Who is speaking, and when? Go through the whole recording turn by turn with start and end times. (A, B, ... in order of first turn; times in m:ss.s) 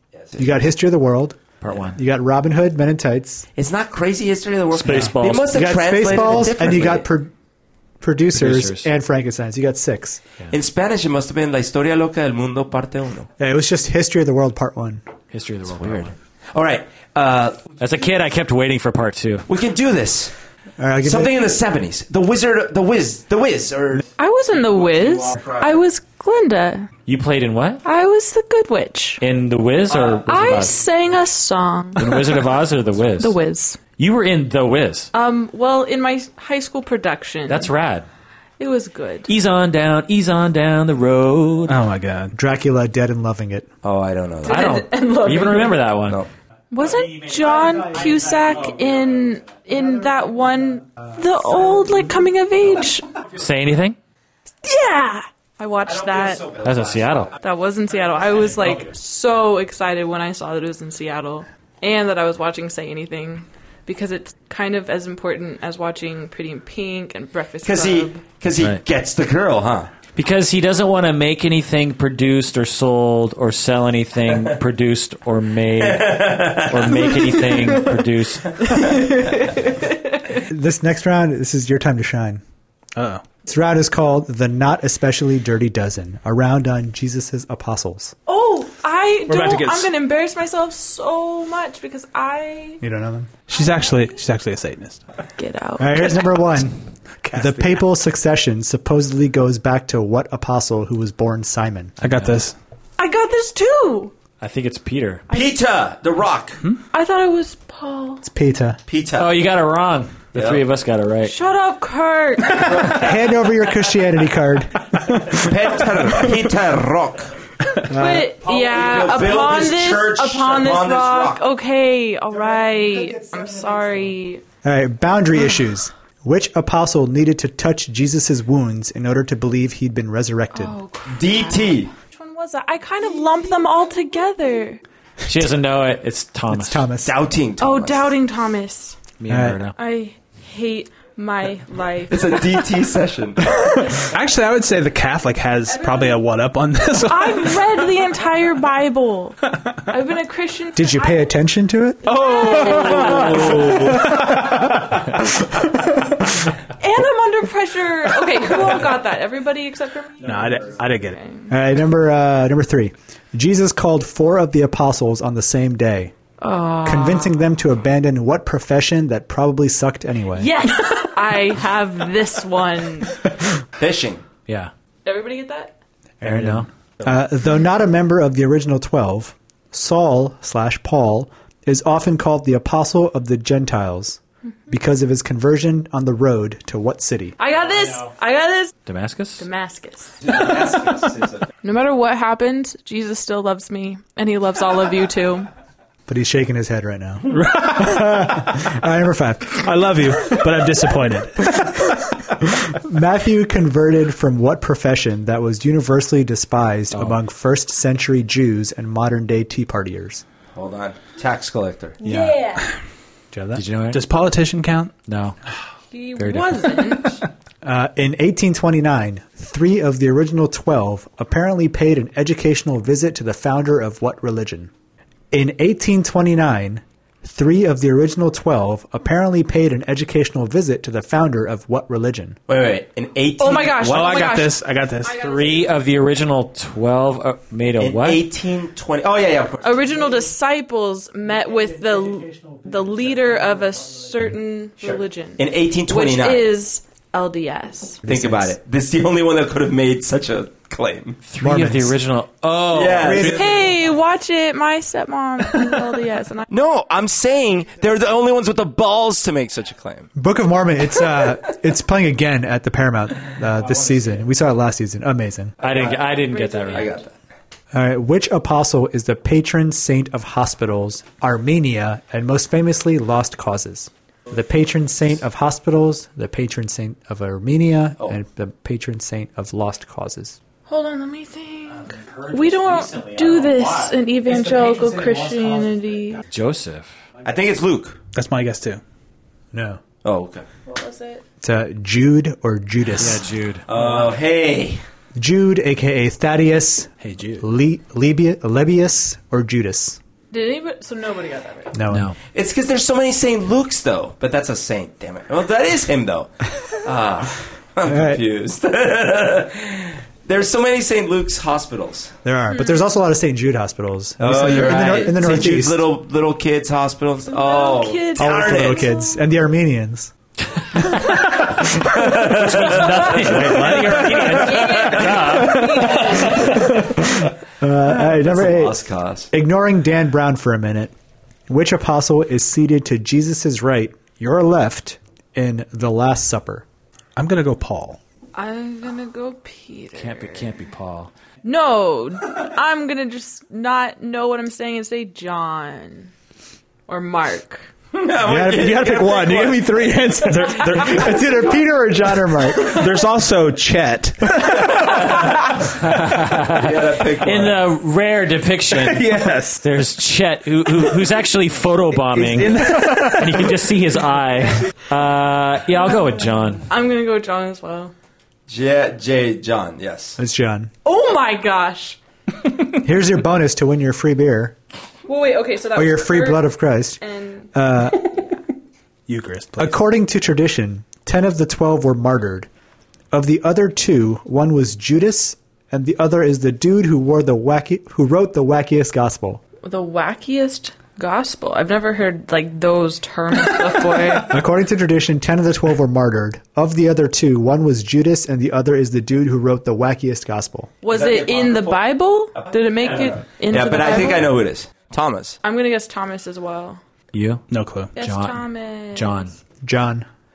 0:00.1-0:00.5 A
0:00.4-0:01.4 B
0:01.6-0:02.0 C
0:01.9-0:03.5 B
0:03.6-0:07.1 A
0:04.7-0:06.2 C
0:04.9-0:07.3 B
0:08.0-0:10.2 B
0:08.4-0:08.9 C
0:10.5-0:13.3 A
0:13.4-0:15.0 B
0:15.3-0:16.1 C
0:15.8-0:17.6 A
0:17.8-0:19.5 C
0:19.5-0:20.3 A
0:20.8-0:21.4 B
0:21.0-0:24.1 A
0:24.2-0:26.9 D
0:24.6-0:25.8 A
0:27.1-0:27.8 C
0:27.8-0:29.2 D
0:29.2-0:30.8 C
0:30.0-0:32.4 D
0:32.0-0:33.4 C
0:33.2-0:33.8 D
0:34.0-0:35.1 C
0:35.1-0:37.7 D
0:37.5-0:38.1 C
0:38.6-0:39.3 D
0:39.3-0:41.8 C
0:41.7-0:42.4 E
0:42.3-0:43.7 B
0:43.8-0:44.8 A
0:44.4-0:45.9 D
0:44.5-0:46.2 C
0:46.7-0:53.1 D
0:53.4-0:54.0 C
0:54.6-0:56.5 D
0:55.9-0:57.2 A
0:56.6-0:57.3 C
0:57.4-1:08.2 D
1:07.6-1:09.9 A
1:10.2-1:18.8 C
1:15.8-1:17.2 A
1:18.6-1:19.1 A
1:18.7-1:20.4 D
1:20.4-1:22.4 B
1:23.0-1:23.3 E
1:23.4-1:28.1 B
1:28.3-1:32.8 D
1:29.3-1:29.9 E
1:32.8-1:33.3 B
1:33.5-1:35.0 E
1:35.4-1:36.4 D
1:35.8-1:42.0 B
1:37.2-1:37.7 E
1:42.0-1:42.6 E
1:42.1-1:42.4 C
1:43.0-1:44.1 D
1:44.4-1:45.2 C
1:45.3-1:45.6 D
1:45.3-1:46.6 A
1:46.9-1:48.2 D
1:48.2-1:48.8 B
1:48.9-1:49.3 A
1:49.2-1:51.3 C
1:50.4-1:50.6 A
1:51.2-1:53.0 D
1:52.7-1:56.3 B
1:55.4-1:57.4 A
1:57.9-1:59.1 B
1:57.9-2:04.4 D
1:58.4-2:01.4 A
2:02.6-2:04.0 B
2:04.6-2:10.8 B
2:10.5-2:14.8 D
2:11.1-2:11.9 A
2:15.3-2:16.9 C
2:16.5-2:17.2 B
2:17.0-2:18.1 A
2:17.6-2:19.0 D
2:19.2-2:19.8 C
2:19.3-2:19.6 B
2:19.8-2:22.5 D
2:22.1-2:23.6 A
2:24.0-2:27.8 E
2:25.7-2:26.2 D
2:27.0-2:31.3 D
2:30.8-2:36.2 B
2:32.0-2:34.0 D
2:32.2-2:32.8 E
2:33.0-2:33.6 C
2:33.4-2:34.7 E
2:36.6-2:41.5 D
2:40.2-2:41.2 E
2:41.5-2:46.1 B
2:46.4-2:47.4 D
2:46.8-2:50.5 B
2:50.4-2:53.2 D
2:53.8-2:54.2 A
2:55.0-2:55.8 D
2:56.2-3:07.4 B
2:56.2-2:56.7 C
3:07.4-3:08.7 D
3:08.9-3:09.4 C
3:09.4-3:10.3 D
3:10.2-3:11.5 A
3:11.6-3:15.5 D
3:16.1-3:19.7 B
3:17.3-3:18.3 E
3:19.6-3:21.9 E
3:21.5-3:30.2 B
3:30.5-3:32.0 A
3:32.0-3:32.7 D
3:32.0-3:32.7 E
3:33.3-3:33.6 B
3:33.6-3:34.0 C
3:33.9-3:34.9 E
3:35.1-3:35.4 C
3:35.9-3:37.2 D
3:36.2-3:36.9 C
3:37.6-3:44.7 B
3:45.3-3:52.4 B
3:52.5-3:54.4 A
3:53.4-3:55.7 D
3:53.8-3:55.3 E
3:55.1-3:58.3 C
3:57.8-4:00.1 A
3:59.6-4:08.0 D
4:01.5-4:03.2 B
4:04.8-4:06.5 A
4:08.0-4:08.5 B
4:08.1-4:11.2 A
4:11.3-4:13.3 C
4:11.4-4:12.0 B
4:12.7-4:13.5 A
4:13.0-4:13.7 B
4:13.2-4:16.5 D
4:16.5-4:20.1 A
4:20.1-4:25.6 B
4:23.6-4:24.1 A
4:25.6-4:26.1 A
4:25.6-4:26.9 C
4:26.2-4:27.0 D
4:26.7-4:27.1 A
4:27.7-4:40.4 B
4:40.7-4:46.2 D
4:41.8-4:44.1 C
4:46.2-4:46.9 C
4:47.2-4:48.0 A
4:48.1-4:48.8 E
4:49.5-4:49.8 B
4:50.0-4:50.4 A
4:50.7-4:51.2 D
4:51.4-4:53.2 B
4:53.0-4:53.7 C
4:53.7-4:54.8 A
4:55.1-5:00.0 B
4:57.0-4:57.5 E
5:00.3-5:01.8 D
5:01.7-5:02.1 B
5:01.9-5:02.2 C
5:02.3-5:12.1 A
5:07.8-5:08.2 B
5:12.2-5:15.9 B
5:12.5-5:12.8 D
5:14.2-5:18.9 A
5:17.3-5:19.2 D
5:18.2-5:20.1 B
5:21.6-5:22.0 B
5:21.9-5:23.4 A
5:22.0-5:26.2 C
5:23.2-5:24.4 E
5:24.2-5:26.7 D
5:24.6-5:25.4 A
5:26.3-5:28.8 B
5:27.9-5:29.3 A
5:29.3-5:30.9 B
5:31.5-5:36.6 B
5:37.2-5:38.0 E
5:38.4-5:40.6 D
5:40.0-5:41.1 C
5:41.4-5:46.1 D
5:46.9-5:47.7 D
5:47.9-5:49.8 A
5:48.2-5:52.9 B
5:48.7-5:51.3 E
5:52.6-5:55.1 E
5:54.8-5:55.2 A
5:55.6-6:06.6 C
5:56.5-5:57.6 A
5:58.7-5:59.6 E
6:02.2-6:03.5 E
6:02.3-6:02.6 A
6:06.6-6:07.9 D
6:08.5-6:10.2 A
6:10.2-6:10.7 B
6:10.8-6:12.0 D
6:12.7-6:14.6 B
6:15.1-6:16.5 D
6:15.8-6:17.0 B
6:17.0-6:17.5 D
6:17.5-6:18.2 B
6:19.1-6:19.8 E
6:19.6-6:22.5 B
6:23.1-6:29.4 B
6:29.6-6:34.4 D
6:34.2-6:40.7 B
6:40.8-6:44.3 D
6:40.9-6:45.4 A
6:45.4-6:46.8 D
6:47.1-6:47.4 C
6:47.5-6:47.9 E
6:47.9-6:49.4 D
6:48.0-6:49.3 C
6:49.6-6:50.1 B